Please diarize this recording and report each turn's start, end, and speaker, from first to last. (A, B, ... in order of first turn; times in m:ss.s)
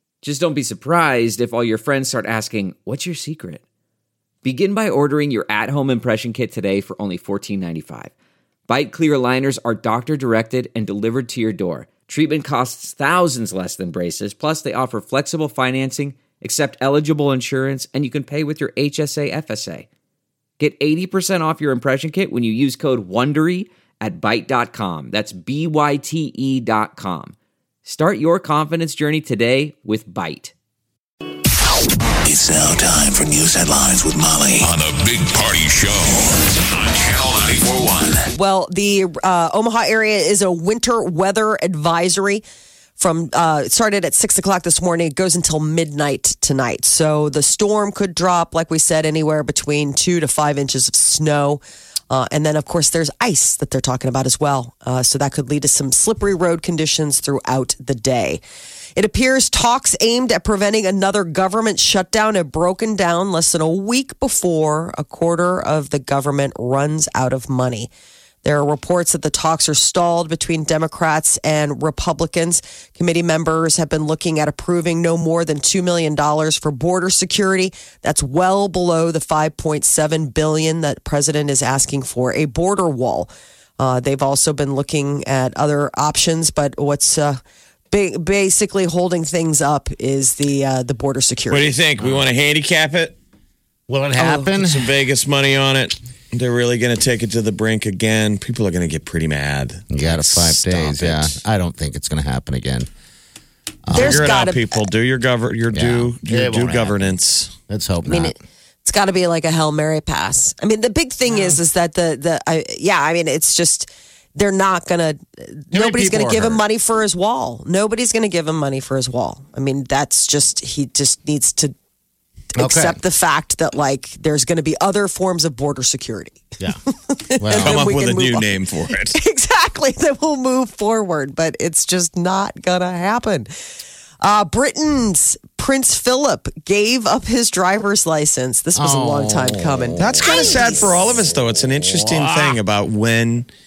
0:00.2-0:03.6 A
0:04.4-0:08.1 A
0:08.7-0:19.9 A
0:20.6-0:30.5 A
0:32.2-0:38.2 B
0:38.3-0:42.4 C
0:43.0-0:58.4 C
0:59.0-1:07.9 C
1:08.4-1:27.4 C
1:27.9-1:31.8 C
1:31.5-1:33.2 D
1:32.0-1:32.2 E
1:33.9-1:34.9 E
1:34.4-1:41.3 D
1:39.9-1:42.9 E
1:43.8-1:44.3 E
1:43.9-1:44.8 C
1:44.0-1:47.5 D
1:45.7-1:47.1 E
1:47.7-1:48.3 E
1:48.0-2:01.7 C
1:51.3-1:51.6 E
1:55.7-1:56.6 E
2:02.6-2:08.6 C
2:02.6-2:03.0 E
2:07.4-2:07.8 E
2:07.6-2:09.2 D
2:09.1-2:13.5 C
2:14.2-2:20.9 C
2:18.8-2:22.6 E
2:20.0-2:23.5 D